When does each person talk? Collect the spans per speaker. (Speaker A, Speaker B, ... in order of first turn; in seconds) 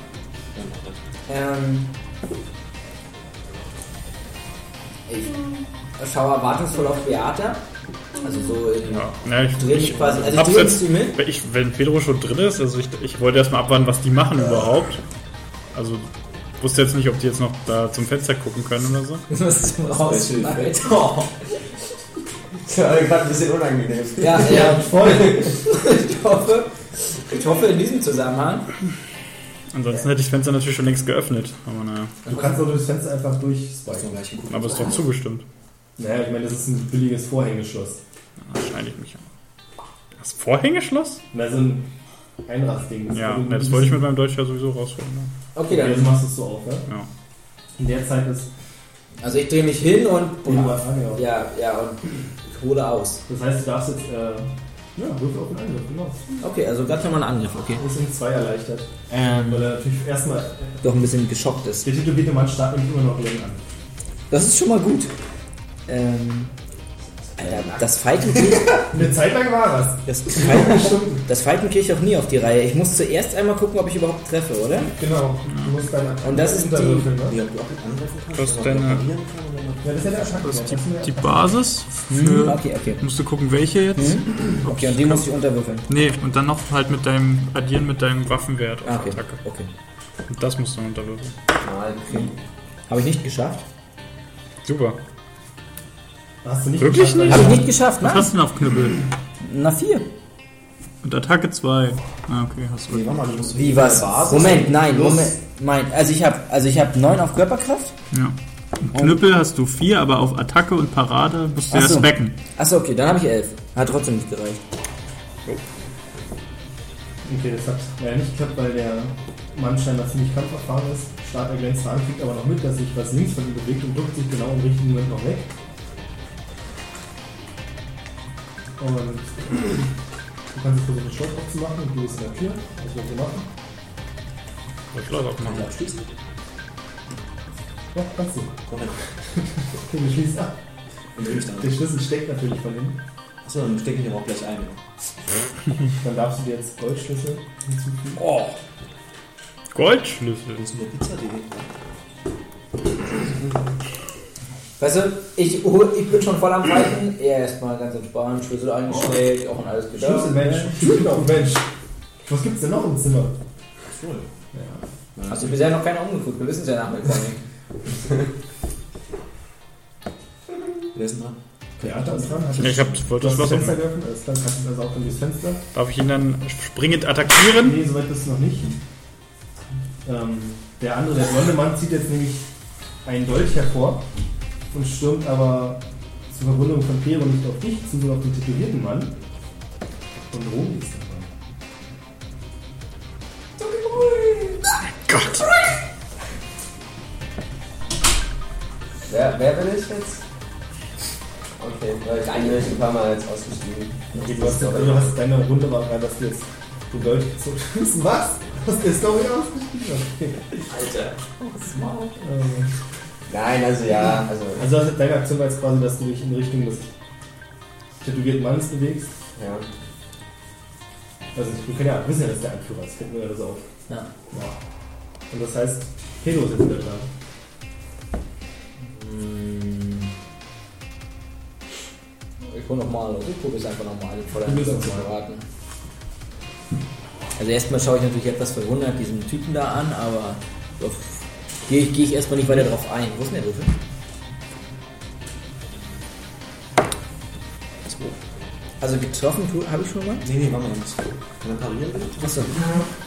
Speaker A: 0.5-1.0, 20.0-21.3, 33.9-35.1, 77.3-80.4, 102.9-105.3, 135.4-136.0, 138.7-138.9, 141.2-141.8, 143.4-144.8, 150.6-151.7, 163.9-164.3, 165.2-165.6, 170.9-172.6, 250.2-252.4
Speaker B: 1.3-1.9, 5.1-5.4, 6.0-7.6, 8.2-11.2, 19.3-21.2, 24.2-28.7, 32.3-32.5, 45.5-46.2, 49.2-53.2, 56.4-57.8, 59.1-59.7, 60.8-61.9, 64.3-65.1, 65.9-66.5, 67.4-68.9, 70.1-74.9, 76.2-77.1, 82.1-83.0, 84.0-85.9, 88.8-89.7, 92.9-93.6, 97.3-98.3, 99.4-100.1, 103.6-108.0, 108.9-109.2, 111.7-114.6, 148.2-148.6, 154.8-160.7, 165.3-167.4, 193.6-195.8, 202.2-202.7, 210.7-212.2, 228.8-230.1, 232.4-235.4, 237.4-243.7, 248.8-250.3, 252.2-252.6
Speaker C: 8.8-15.0, 15.7-16.1, 16.6-19.2, 29.7-32.1, 34.5-35.5, 38.5-39.3, 40.2-41.2, 43.1-45.3, 78.4-79.1, 80.5-85.2, 85.9-89.4, 90.3-91.3, 94.7-95.0, 96.8-99.0, 101.0-103.2, 108.1-112.3, 134.9-135.7, 149.7-150.7, 172.6-173.8, 175.7-177.8, 195.1-195.5
Speaker D: 22.6-24.8, 67.5-67.8, 91.6-92.3, 199.1-200.2, 201.6-205.1, 213.3-214.7, 219.4-219.7
Speaker E: 24.4-25.5, 32.3-34.2, 36.0-38.0, 41.3-41.9, 42.5-44.0, 45.7-46.9, 47.8-48.5, 50.5-51.2, 53.3-56.2, 57.8-58.9, 59.5-60.8, 61.8-63.6, 68.8-71.2, 75.0-77.4, 79.8-81.6, 96.4-97.7, 117.2-125.5, 128.8-129.9, 130.5-133.5, 137.9-138.6, 139.7-140.6, 141.5-143.0, 146.0-148.2, 160.0-161.7, 162.2-163.3, 164.5-164.8, 171.8-175.6, 177.6-178.8, 180.1-182.5, 183.1-184.1, 184.7-189.2, 190.3-191.3, 204.2-210.5, 212.2-212.7, 214.6-216.9, 218.0-219.1, 221.3-223.7, 224.3-224.6, 225.3-227.1, 234.4-235.1